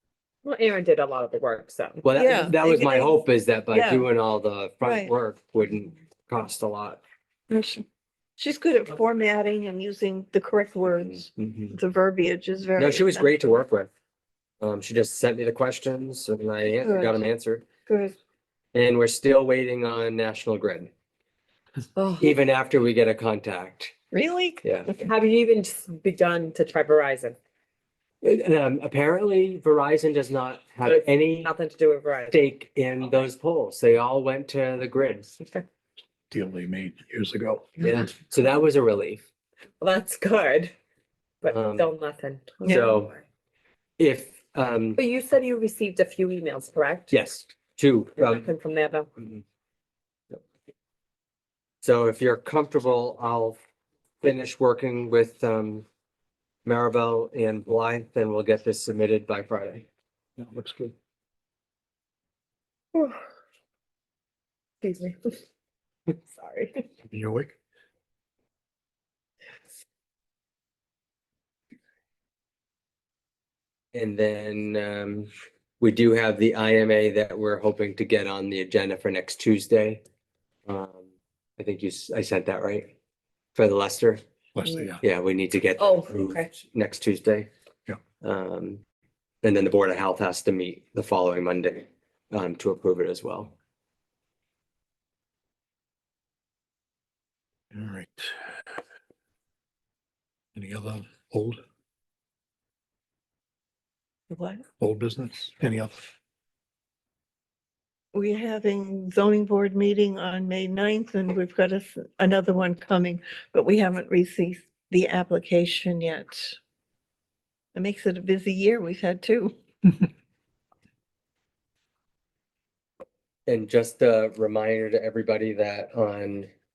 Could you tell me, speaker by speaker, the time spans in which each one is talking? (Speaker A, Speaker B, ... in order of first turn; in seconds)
Speaker A: 0.4-2.0, 21.9-22.3, 25.0-27.4, 30.8-32.4, 35.4-35.6, 39.8-40.7, 41.4-43.1, 45.0-47.1, 48.2-49.1, 62.9-63.2, 64.8-65.4, 66.3-66.8, 85.8-86.5
Speaker B: 2.0-7.0, 11.4-11.8, 12.8-13.9, 14.6-17.6, 18.7-20.9, 22.2-23.9, 24.6-24.9, 28.2-31.5, 32.3-35.4, 37.8-39.2, 41.5-41.9, 42.6-43.1, 44.0-45.0, 47.1-48.5, 49.2-49.4, 51.8-53.6, 54.2-55.9, 56.6-59.9, 73.9-80.0, 80.7-82.9, 83.5-84.2, 85.0-87.5, 88.2-88.8, 89.4-93.5, 123.5-126.5
Speaker C: 2.1-4.1, 4.8-5.1, 7.5-7.8, 8.4-13.3, 16.8-17.2, 17.9-18.1, 24.1-25.0, 42.6-43.0, 104.3-104.6, 108.1-116.5, 117.7-119.5
Speaker D: 36.3-37.9, 60.4-60.9, 67.1-67.5, 84.5-85.0, 97.7-98.3, 100.5-101.6, 104.8-106.1